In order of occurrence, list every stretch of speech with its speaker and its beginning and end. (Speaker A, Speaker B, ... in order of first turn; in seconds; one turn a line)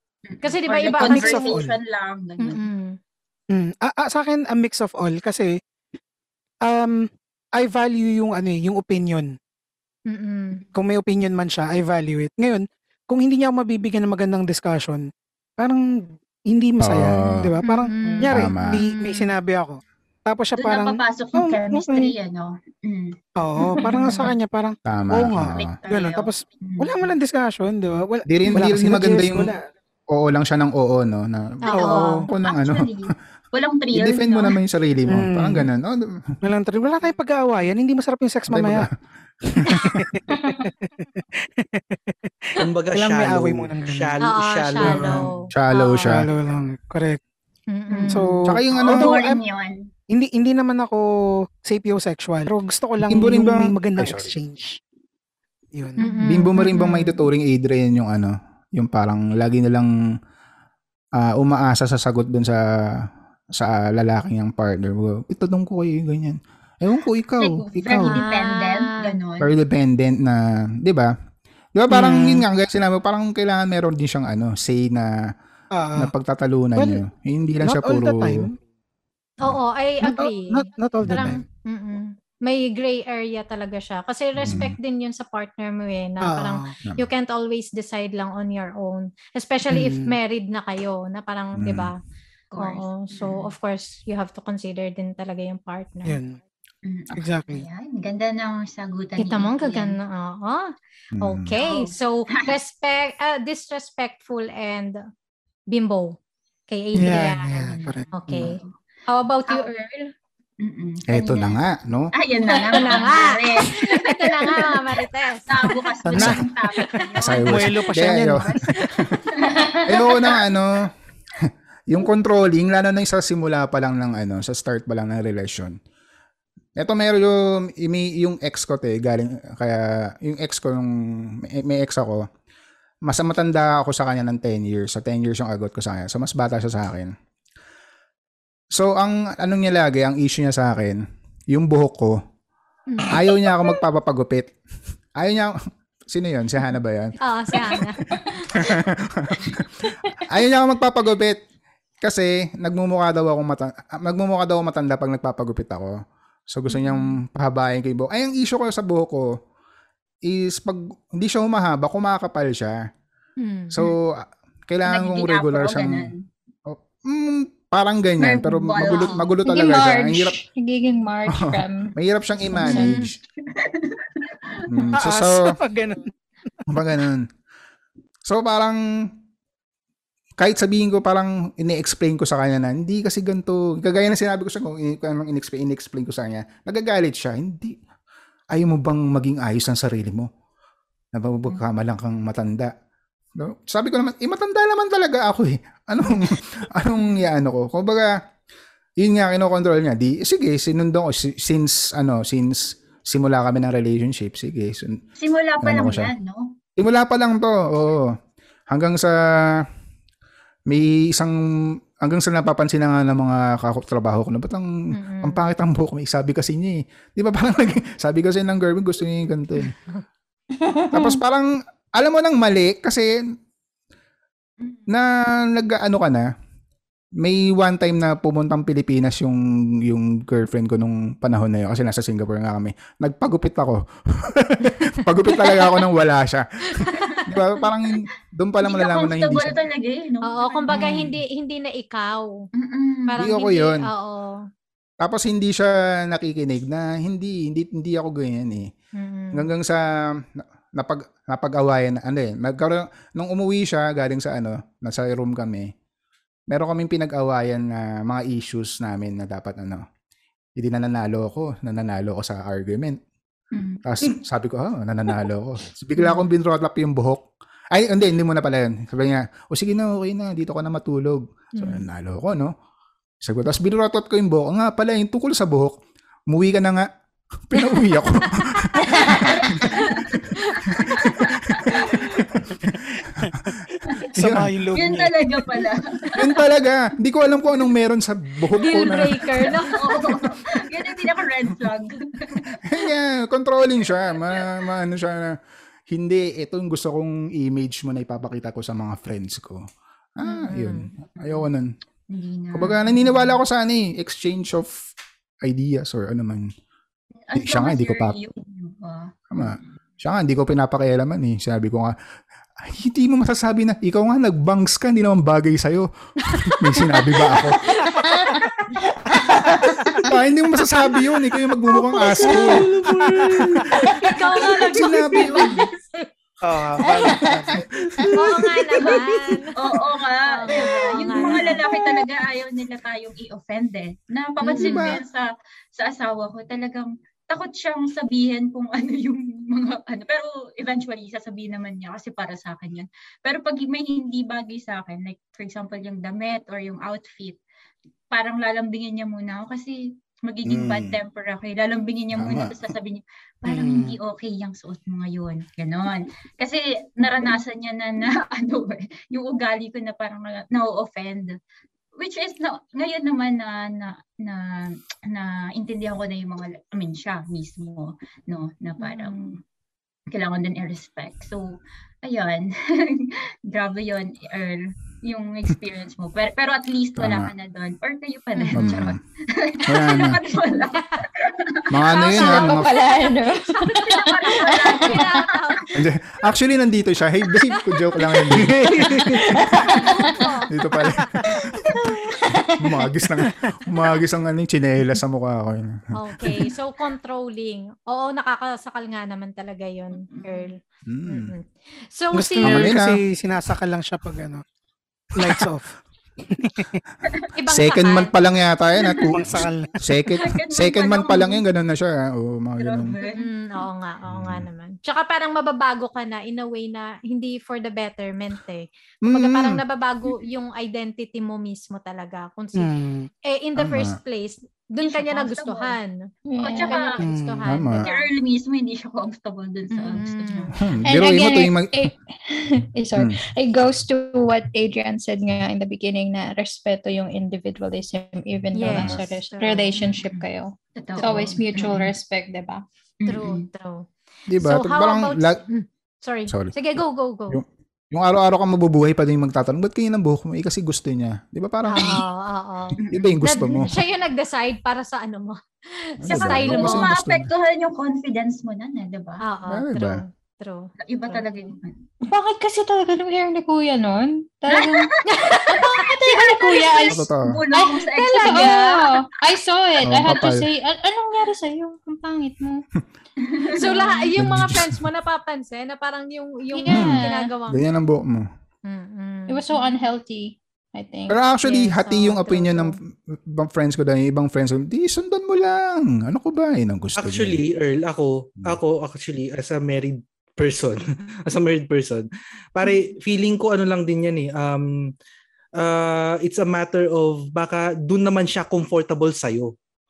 Speaker A: 0.3-2.7
Speaker B: 0.4-1.6
Speaker C: 1.0-1.8
Speaker B: 2.4-3.0
Speaker C: 3.5-5.5
Speaker C: 6.6-9.3
Speaker B: 10.1-10.6
Speaker C: 10.7-15.0
Speaker C: 15.6-22.1
Speaker D: 16.8-17.5
Speaker B: 17.6-19.3
Speaker D: 18.3-18.8
Speaker A: 20.6-23.1
Speaker C: 23.4-29.6
Speaker B: 23.6-24.3
Speaker A: 23.7-24.3
Speaker D: 24.9-25.7
Speaker A: 25.5-27.1
Speaker D: 28.3-29.5
Speaker D: 30.1-33.0
Speaker B: 31.6-32.2
Speaker C: 31.7-32.3
Speaker A: 31.8-34.6
Speaker D: 33.9-36.0
Speaker C: 35.1-35.7
Speaker C: 36.4-38.9
Speaker D: 38.5-38.9
Speaker D: 39.5-40.1
Speaker C: 39.6-44.2
Speaker E: 42.6-45.2
Speaker B: 44.2-46.1
Speaker C: 44.8-45.2
Speaker D: 45.5-46.3
Speaker C: 46.0-47.2
Speaker B: 47.7-48.3
Speaker A: 47.9-49.9
Speaker C: 48.1-49.4
Speaker D: 48.5-49.1
Speaker C: 50.1-51.1
Speaker C: 51.6-54.8
Speaker D: 53.0-54.3
Speaker C: 55.7-56.0
Speaker B: 56.0-57.2
Speaker D: 56.2-59.9
Speaker D: 61.1-62.6
Speaker D: 63.5-67.8
Speaker A: 67.4-69.5
Speaker C: 67.8-68.2
Speaker B: 68.1-69.2
Speaker D: 69.4-71.1
Speaker D: 71.8-75.3
Speaker C: 71.9-72.4
Speaker C: 75.7-76.1
Speaker D: 76.0-78.5
Speaker C: 76.8-77.0
Speaker C: 77.6-78.5
Speaker B: 79.4-92.0
Speaker C: 80.0-81.4
Speaker D: 81.0-81.4
Speaker D: 84.4-84.8
Speaker C: 86.2-86.8
Speaker C: 89.7-90.2
Speaker D: 91.6-91.9
Speaker A: 92.5-93.5
Speaker B: 92.6-96.2
Speaker C: 96.0-96.4
Speaker A: 96.8-100.0
Speaker C: 97.1-97.7
Speaker B: 99.2-105.0
Speaker D: 101.1-101.5
Speaker A: 101.5-102.5
Speaker B: 105.7-106.2
Speaker B: 106.7-110.1
Speaker C: 106.9-108.1
Speaker A: 107.6-108.7
Speaker A: 110.6-114.8
Speaker D: 111.1-112.1
Speaker F: 112.6-113.0
Speaker B: 112.7-115.9
Speaker A: 115.5-118.7
Speaker C: 116.1-118.8
Speaker B: 116.8-117.2
Speaker D: 117.2-119.2
Speaker A: 119.3-120.4
Speaker D: 119.8-120.9
Speaker D: 121.4-125.8
Speaker D: 126.8-132.3
Speaker D: 133.1-137.1
Speaker D: 138.7-142.2
Speaker B: 142.9-143.4
Speaker D: 143.1-144.5
Speaker D: 145.2-145.6
Speaker D: 146.1-147.9
Speaker B: 147.2-148.7
Speaker D: 148.5-151.4
Speaker D: 152.0-156.0
Speaker D: 156.5-159.4
Speaker B: 156.7-157.1
Speaker D: 160.2-162.9
Speaker B: 163.4-163.9
Speaker D: 163.7-166.1
Speaker A: 164.8-166.3
Speaker D: 166.7-170.4
Speaker A: 168.2-169.3
Speaker B: 168.8-169.2
Speaker F: 169.4-171.9
Speaker D: 171.3-173.2
Speaker B: 172.6-173.1
Speaker F: 172.6-172.9
Speaker A: 173.4-174.9
Speaker D: 174.7-175.5
Speaker C: 174.9-176.1
Speaker D: 176.7-177.3
Speaker D: 178.2-178.8
Speaker D: 180.4-187.8
Speaker D: 188.5-190.3
Speaker D: 191.1-192.7
Speaker D: 193.3-198.2
Speaker D: 199.0-205.0
Speaker A: 205.2-206.5
Speaker D: 205.6-206.1
Speaker D: 206.8-208.1
Speaker D: 208.7-209.7
Speaker D: 210.7-211.4
Speaker D: 212.0-219.7
Speaker B: 214.9-215.4
Speaker F: 220.6-221.2
Speaker D: 220.9-223.2
Speaker A: 224.6-224.9
Speaker D: 224.9-226.3
Speaker D: 227.2-239.6
Speaker A: 236.9-237.2
Speaker A: 238.6-241.2
Speaker B: 240.2-242.3
Speaker A: 242.5-243.2
Speaker B: 243.1-244.4
Speaker D: 243.2-243.9
Speaker D: 245.0-248.7
Speaker B: 248.9-249.5
Speaker D: 249.3-255.7
Speaker D: 256.5-259.8
Speaker D: 260.6-263.0
Speaker A: 263.5-263.8
Speaker D: 263.8-272.5
Speaker B: 271.6-271.9
Speaker D: 273.2-275.8
Speaker D: 276.3-276.9
Speaker D: 277.5-280.1
Speaker B: 278.4-282.0
Speaker A: 279.1-282.2
Speaker D: 280.7-282.7
Speaker D: 284.1-284.5
Speaker C: 284.1-285.6
Speaker A: 284.7-286.4
Speaker D: 286.1-289.6
Speaker B: 288.6-289.9
Speaker A: 289.4-292.9
Speaker D: 292.6-295.4
Speaker D: 295.9-301.7
Speaker B: 300.2-300.9
Speaker A: 301.2-301.5
Speaker A: 302.1-303.4
Speaker D: 302.5-304.9
Speaker D: 305.4-306.5
Speaker A: 307.3-309.7
Speaker D: 307.4-308.1
Speaker D: 309.3-311.9
Speaker D: 312.6-317.6
Speaker B: 316.4-318.4
Speaker D: 320.0-322.8
Speaker E: 321.9-324.8
Speaker B: 323.9-325.7
Speaker D: 324.4-325.6
Speaker C: 326.4-327.6
Speaker E: 327.8-329.0
Speaker B: 328.1-329.5
Speaker A: 328.8-329.0
Speaker A: 329.5-347.4
Speaker B: 330.2-331.7
Speaker B: 334.4-334.9
Speaker D: 334.6-335.0
Speaker A: 348.1-361.4
Speaker D: 350.4-351.0
Speaker D: 352.1-352.6
Speaker C: 353.5-353.9
Speaker A: 361.9-369.4
Speaker B: 368.8-369.4
Speaker A: 370.1-381.8
Speaker D: 377.0-377.3
Speaker B: 378.3-378.8
Speaker D: 378.5-379.0
Speaker D: 379.7-380.2
Speaker D: 381.7-382.7
Speaker B: 381.9-385.6
Speaker F: 382.0-385.2
Speaker A: 383.6-385.8
Speaker D: 385.7-389.0
Speaker B: 387.5-388.2
Speaker C: 388.3-389.3
Speaker E: 388.7-389.0
Speaker F: 389.0-390.1
Speaker B: 389.7-390.8
Speaker D: 390.5-391.8
Speaker F: 392.1-392.8
Speaker D: 392.6-396.5
Speaker B: 395.9-402.8
Speaker A: 399.9-400.5
Speaker D: 400.9-401.3
Speaker C: 402.1-404.4
Speaker D: 402.4-403.0
Speaker C: 405.1-405.7
Speaker C: 406.2-406.8
Speaker A: 407.0-407.3
Speaker B: 407.4-408.1
Speaker D: 407.4-413.0
Speaker C: 409.1-410.0
Speaker A: 410.1-411.4
Speaker A: 412.6-413.3
Speaker B: 413.1-425.9
Speaker D: 414.1-414.5
Speaker D: 419.1-419.6
Speaker C: 422.6-423.1
Speaker D: 423.6-424.0
Speaker A: 424.8-425.8
Speaker F: 426.3-426.8
Speaker A: 426.4-427.0
Speaker B: 426.6-428.1
Speaker C: 427.0-427.5
Speaker D: 427.4-427.9
Speaker A: 427.8-430.8
Speaker B: 429.7-430.6
Speaker D: 430.6-431.9
Speaker F: 430.8-442.6
Speaker B: 438.5-439.9
Speaker D: 438.7-439.0
Speaker A: 439.8-440.2
Speaker A: 440.8-441.9
Speaker A: 443.0-443.5
Speaker B: 443.0-443.9
Speaker D: 444.3-445.4
Speaker B: 444.4-447.4
Speaker D: 446.3-446.8
Speaker D: 447.3-452.1
Speaker B: 451.7-456.9
Speaker A: 452.8-453.7
Speaker D: 452.9-453.8
Speaker D: 456.0-457.3
Speaker A: 456.1-459.2
Speaker B: 459.2-461.5
Speaker D: 459.5-460.0
Speaker A: 460.8-461.8
Speaker F: 462.0-472.6
Speaker A: 464.5-468.7
Speaker B: 465.1-465.9
Speaker D: 466.9-467.4
Speaker B: 468.0-468.9
Speaker D: 469.8-470.4
Speaker A: 473.2-474.1
Speaker B: 473.5-477.6
Speaker D: 474.2-474.8
Speaker F: 476.6-477.3
Speaker D: 476.7-478.3
Speaker B: 478.6-479.5
Speaker F: 479.3-481.2
Speaker D: 481.1-487.4
Speaker B: 481.4-482.8
Speaker E: 487.0-494.9
Speaker E: 495.6-499.5